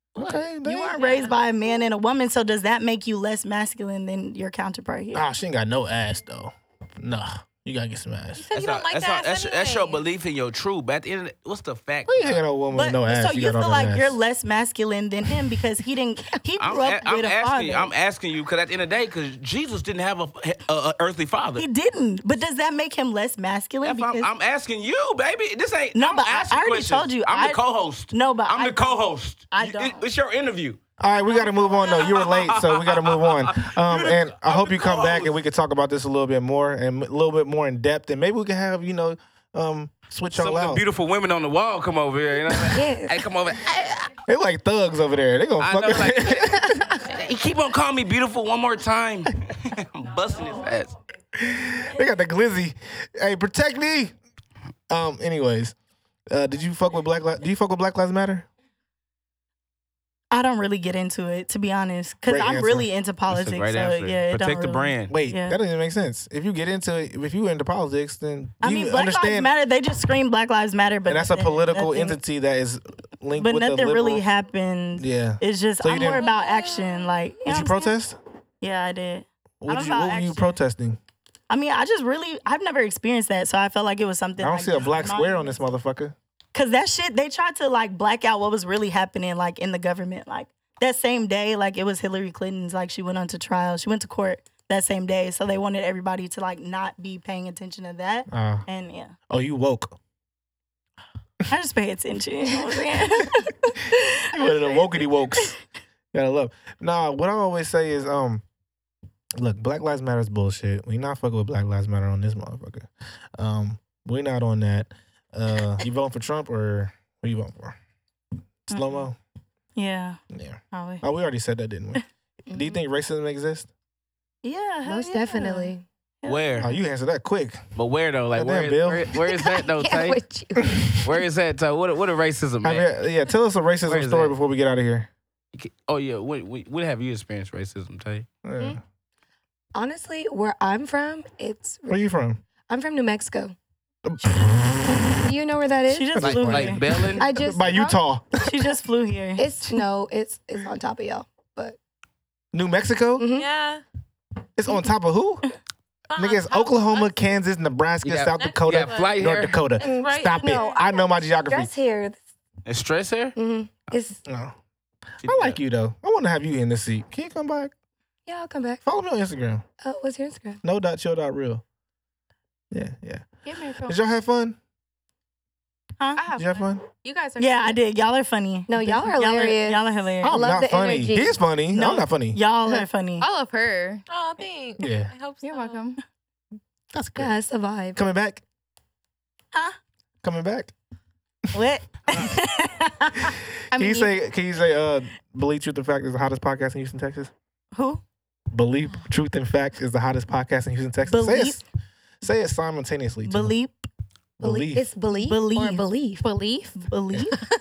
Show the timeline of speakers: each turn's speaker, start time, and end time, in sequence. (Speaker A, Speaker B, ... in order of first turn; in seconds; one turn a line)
Speaker A: 0.1-0.5
Speaker B: 0.2-1.1
Speaker C: 0.6-5.2
Speaker D: 1.0-1.3
Speaker B: 5.1-8.4
Speaker D: 8.3-10.0
Speaker A: 8.5-12.4
Speaker B: 12.1-14.2
Speaker C: 12.7-17.9
Speaker A: 16.6-21.6
Speaker C: 21.6-24.3
Speaker A: 23.8-30.8
Speaker C: 25.9-30.1
Speaker B: 31.0-40.8
Speaker A: 31.8-35.4
Speaker A: 40.3-44.1
Speaker E: 42.7-43.2
Speaker B: 44.3-47.0
Speaker A: 45.6-50.9
Speaker B: 51.4-54.1
Speaker B: 54.9-55.7
Speaker B: 56.3-58.5
Speaker C: 60.3-65.6
Speaker B: 62.2-62.9
Speaker A: 63.3-65.1
Speaker B: 65.1-69.5
Speaker C: 68.6-72.2
Speaker B: 71.1-74.2
Speaker C: 73.4-78.0
Speaker B: 75.0-76.2
Speaker D: 76.1-77.1
Speaker B: 77.5-78.2
Speaker C: 78.6-80.6
Speaker B: 79.6-81.0
Speaker C: 81.5-85.6
Speaker B: 84.4-86.1
Speaker C: 86.5-99.1
Speaker B: 98.3-98.7
Speaker B: 99.3-100.0
Speaker C: 101.5-105.5
Speaker B: 104.3-105.5
Speaker B: 106.1-108.4
Speaker B: 109.4-117.8
Speaker B: 118.7-119.2
Speaker C: 118.7-119.1
Speaker C: 119.7-120.2
Speaker B: 120.3-123.7
Speaker C: 120.7-121.0
Speaker E: 122.5-122.8
Speaker C: 124.4-126.7
Speaker E: 124.8-125.8
Speaker A: 126.2-126.7
Speaker B: 126.6-127.6
Speaker A: 127.8-130.2
Speaker B: 128.3-129.1
Speaker E: 129.2-131.0
Speaker B: 130.6-130.9
Speaker A: 131.0-132.9
Speaker B: 132.6-135.1
Speaker A: 133.8-134.3
Speaker A: 135.5-138.3
Speaker B: 138.4-138.8
Speaker E: 139.7-142.0
Speaker B: 141.9-142.4
Speaker E: 142.6-143.5
Speaker B: 144.1-145.1
Speaker E: 145.1-146.2
Speaker C: 145.9-147.3
Speaker B: 146.1-148.5
Speaker A: 146.2-147.3
Speaker E: 147.1-148.0
Speaker C: 148.4-149.8
Speaker E: 149.4-151.8
Speaker B: 152.5-153.2
Speaker E: 153.2-153.5
Speaker D: 153.3-153.8
Speaker B: 154.6-155.4
Speaker D: 156.1-157.1
Speaker B: 156.2-161.7
Speaker A: 158.0-159.6
Speaker D: 158.3-159.3
Speaker E: 159.8-162.2
Speaker D: 159.9-160.6
Speaker A: 162.7-163.3
Speaker E: 163.3-164.2
Speaker B: 164.2-164.5
Speaker B: 165.2-167.7
Speaker A: 165.2-165.6
Speaker E: 168.2-168.8
Speaker B: 168.8-169.6
Speaker E: 169.8-170.6
Speaker B: 170.6-171.6
Speaker B: 172.7-173.3
Speaker F: 173.4-174.0
Speaker B: 173.8-174.6
Speaker F: 176.2-177.8
Speaker B: 176.3-176.8
Speaker C: 177.4-180.4
Speaker E: 178.7-181.4
Speaker B: 180.2-182.4
Speaker C: 181.7-183.2
Speaker F: 183.2-184.0
Speaker D: 184.1-185.8
Speaker B: 184.8-185.1
Speaker F: 185.4-186.0
Speaker B: 186.9-187.3
Speaker E: 187.2-188.0
Speaker B: 187.9-188.4
Speaker B: 190.2-190.7
Speaker C: 191.5-193.4
Speaker F: 193.7-194.1
Speaker B: 193.7-197.3
Speaker C: 197.7-198.0
Speaker B: 198.5-201.6
Speaker C: 201.1-201.6
Speaker B: 202.2-203.5
Speaker C: 203.3-203.9
Speaker B: 204.4-204.8
Speaker E: 204.4-206.2
Speaker C: 205.1-205.9
Speaker F: 206.2-206.8
Speaker C: 206.8-207.4